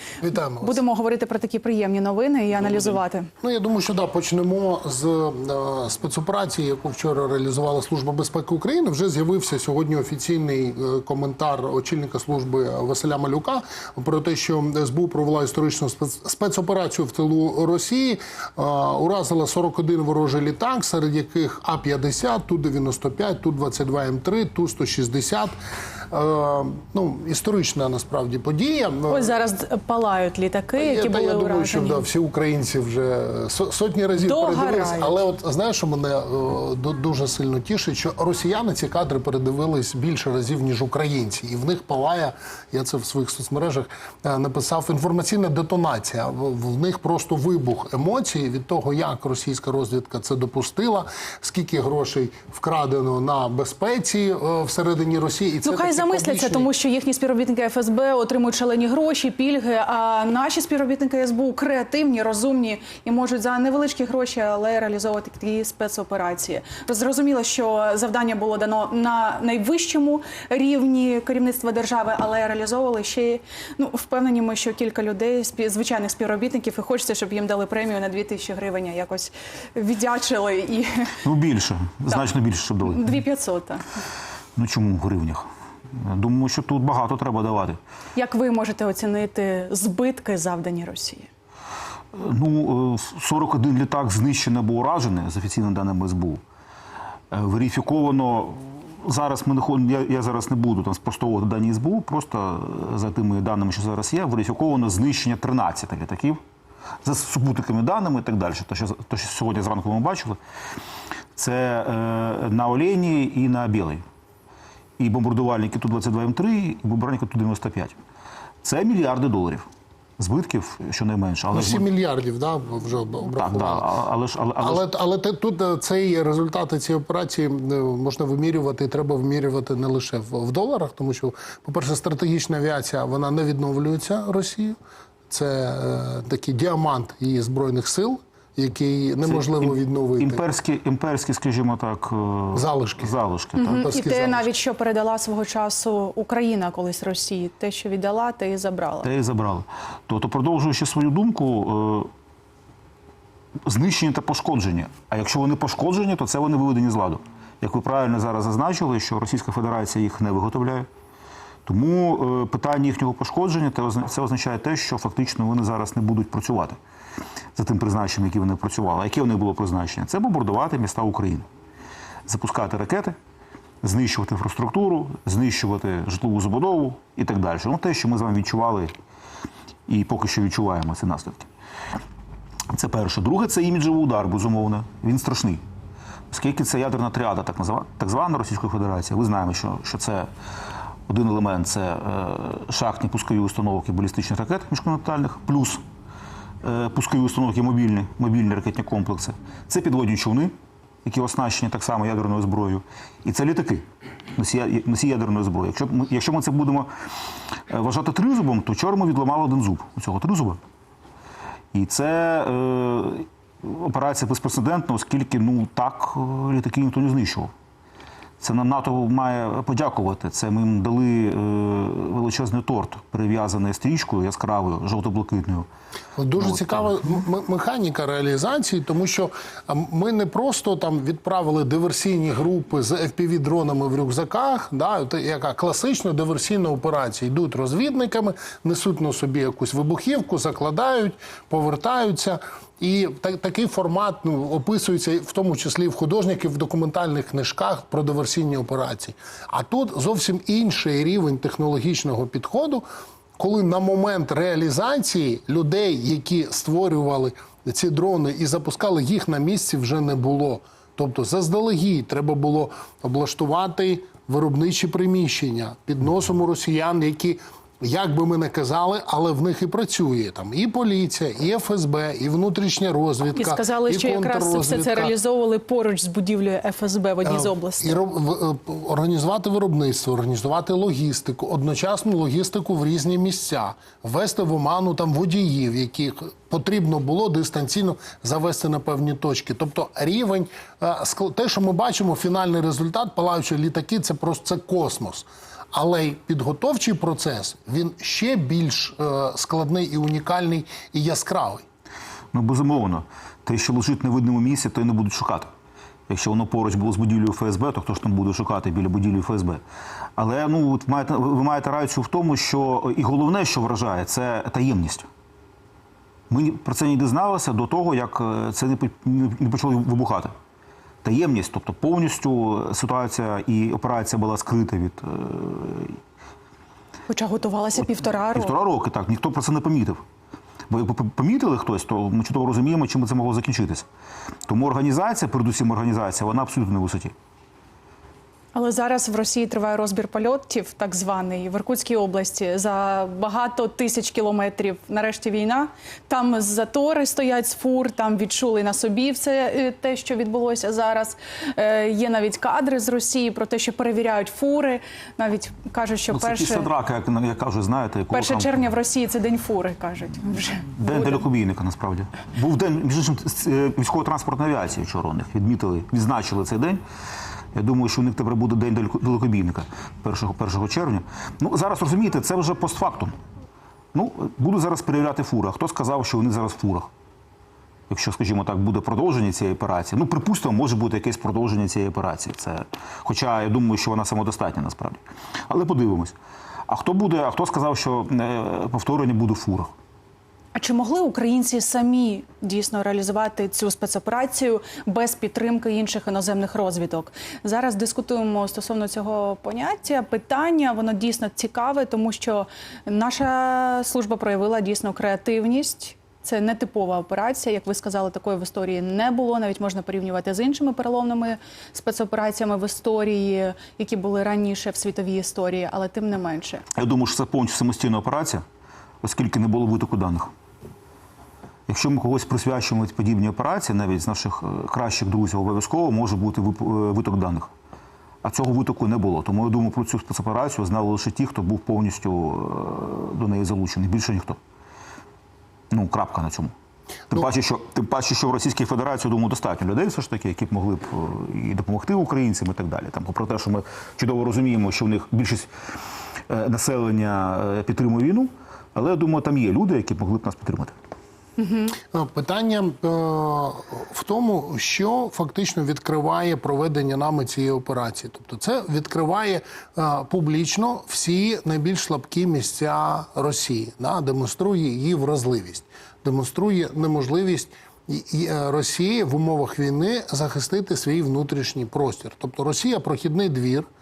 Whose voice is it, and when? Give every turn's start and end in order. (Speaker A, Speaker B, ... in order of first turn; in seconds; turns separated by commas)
Speaker A: 0.2-0.8, Speaker B: 0.6-3.3, Speaker A: 3.4-25.6, Speaker A: 26.1-29.3, Speaker B: 29.1-32.1, Speaker A: 30.8-56.7, Speaker B: 34.2-35.2, Speaker B: 55.6-81.2, Speaker C: 81.2-83.1, Speaker B: 82.8-83.9, Speaker C: 84.6-87.8, Speaker B: 88.2-91.3, Speaker C: 92.2-96.4, Speaker C: 97.3-106.4, Speaker C: 107.0-110.4, Speaker C: 111.4-114.0, Speaker C: 115.0-118.0, Speaker C: 118.6-119.7, Speaker C: 120.2-121.9, Speaker A: 121.5-123.9, Speaker C: 123.3-124.9, Speaker A: 124.6-134.8, Speaker A: 135.3-140.4, Speaker C: 139.2-143.8, Speaker A: 142.5-143.2, Speaker B: 143.6-149.1, Speaker A: 143.7-144.5, Speaker C: 149.0-152.1, Speaker C: 153.7-160.9, Speaker C: 161.7-166.8, Speaker C: 167.6-171.5, Speaker C: 172.3-173.2, Speaker C: 173.8-178.9, Speaker C: 179.9-181.5, Speaker C: 182.7-185.6, Speaker C: 186.3-190.3, Speaker C: 191.1-195.8, Speaker C: 196.6-200.5, Speaker C: 201.1-206.9, Speaker C: 207.7-210.6, Speaker C: 211.7-217.5, Speaker C: 218.4-225.7, Speaker A: 226.2-252.9, Speaker C: 226.3-226.9, Speaker A: 253.4-275.1, Speaker B: 273.4-278.0, Speaker A: 277.2-301.6, Speaker C: 302.3-305.5, Speaker C: 306.1-309.6, Speaker C: 310.2-315.1, Speaker C: 316.3-320.3, Speaker C: 321.0-326.0, Speaker B: 327.1-328.6, Speaker C: 328.0-330.0, Speaker C: 330.7-333.9, Speaker C: 334.5-337.1, Speaker B: 338.5-356.7, Speaker C: 356.1-358.7, Speaker B: 358.1-361.2, Speaker C: 360.8-366.8, Speaker C: 367.6-373.1, Speaker C: 373.9-376.9, Speaker C: 377.9-386.1, Speaker C: 386.7-389.7, Speaker B: 390.6-416.6, Speaker C: 416.8-418.4, Speaker C: 419.0-420.3, Speaker C: 421.7-427.5, Speaker C: 428.2-434.4, Speaker C: 435.7-436.5, Speaker C: 437.1-445.5, Speaker C: 446.3-450.7, Speaker B: 451.4-451.7, Speaker A: 451.8-473.7